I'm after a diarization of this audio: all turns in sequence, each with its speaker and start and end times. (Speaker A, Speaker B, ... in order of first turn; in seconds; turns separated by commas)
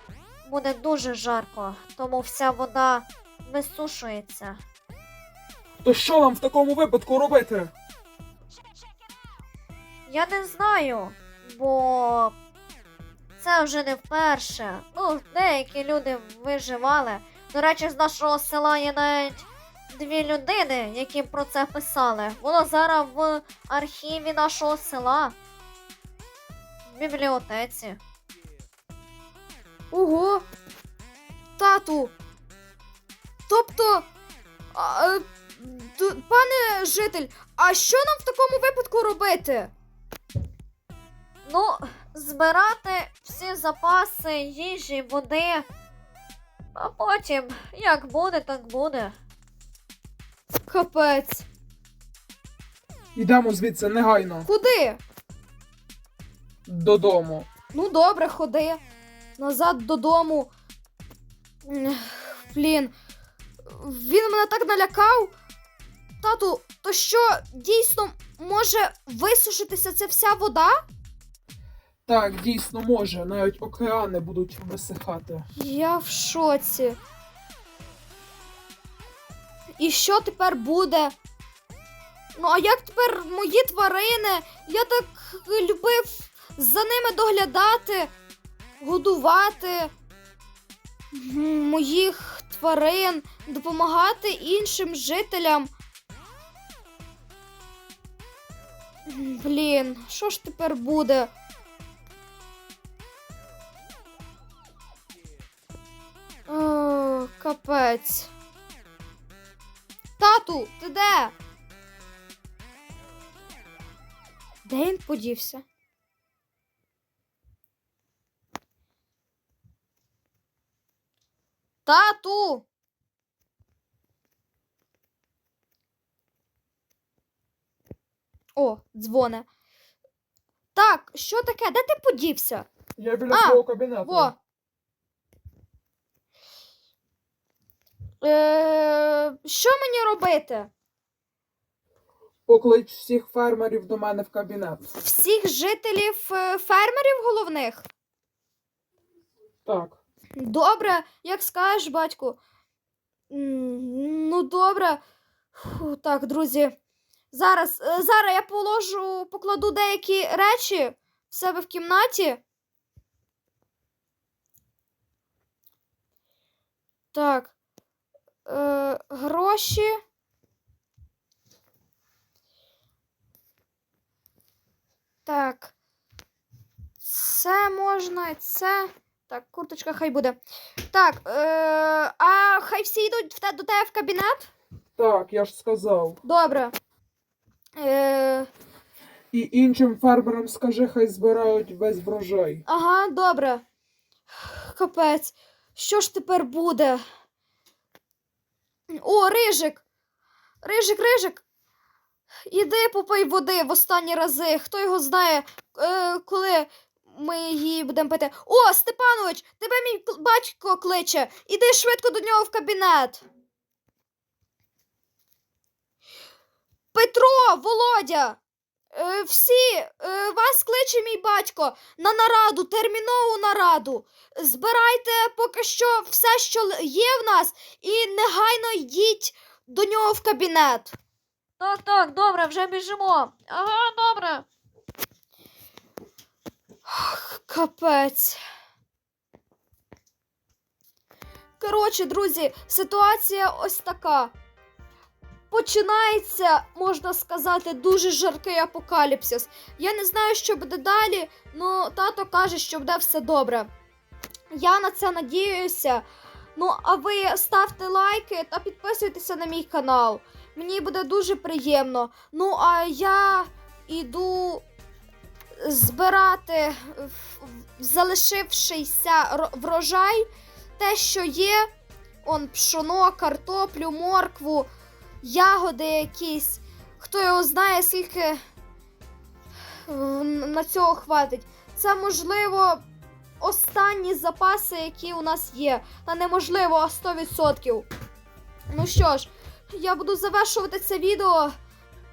Speaker A: 0.5-4.6, Speaker B: 5.8-7.7, Speaker A: 10.1-12.3, Speaker A: 13.4-25.3, Speaker A: 26.9-28.0, Speaker C: 29.9-30.4, Speaker C: 31.6-32.1, Speaker C: 33.5-34.1, Speaker C: 34.7-39.7, Speaker A: 41.5-45.6, Speaker A: 46.7-49.1, Speaker C: 50.7-51.5, Speaker B: 53.1-54.5, Speaker C: 54.4-55.0, Speaker B: 56.6-57.5, Speaker C: 57.7-58.8, Speaker C: 59.4-60.5, Speaker C: 61.6-62.9, Speaker C: 63.7-65.3, Speaker C: 66.2-70.8, Speaker B: 72.0-75.5, Speaker C: 75.5-77.0, Speaker C: 79.8-81.1, Speaker C: 82.3-88.1, Speaker C: 88.8-89.9, Speaker C: 91.1-95.7, Speaker C: 99.1-101.3, Speaker C: 106.5-108.3, Speaker C: 110.2-111.3, Speaker C: 114.6-115.6, Speaker C: 121.8-122.7, Speaker C: 128.6-129.5, Speaker C: 130.7-132.7, Speaker B: 133.0-134.3, Speaker C: 133.3-134.3, Speaker C: 138.2-140.7, Speaker B: 142.5-144.9, Speaker C: 145.0-147.8, Speaker B: 149.6-150.0, Speaker C: 150.4-152.4, Speaker C: 153.3-155.0, Speaker C: 155.5-156.8, Speaker C: 157.3-162.4, Speaker C: 167.1-167.5, Speaker C: 168.4-169.9, Speaker C: 175.2-175.7, Speaker C: 177.0-180.4, Speaker C: 180.9-184.5, Speaker B: 185.0-186.2, Speaker C: 186.2-186.7, Speaker C: 187.8-188.5, Speaker B: 189.3-192.6, Speaker C: 192.7-193.6, Speaker C: 194.4-197.0, Speaker C: 198.9-199.8, Speaker C: 200.6-201.4, Speaker C: 202.5-213.2, Speaker C: 216.9-218.4, Speaker C: 218.9-231.0, Speaker A: 231.6-234.4, Speaker C: 236.8-238.4, Speaker C: 241.6-244.3, Speaker C: 245.5-253.7, Speaker C: 254.5-264.6, Speaker C: 265.6-270.2, Speaker C: 270.8-271.7, Speaker C: 272.2-274.7, Speaker C: 275.2-278.4, Speaker C: 279.9-282.8, Speaker C: 283.4-287.9, Speaker C: 288.7-291.5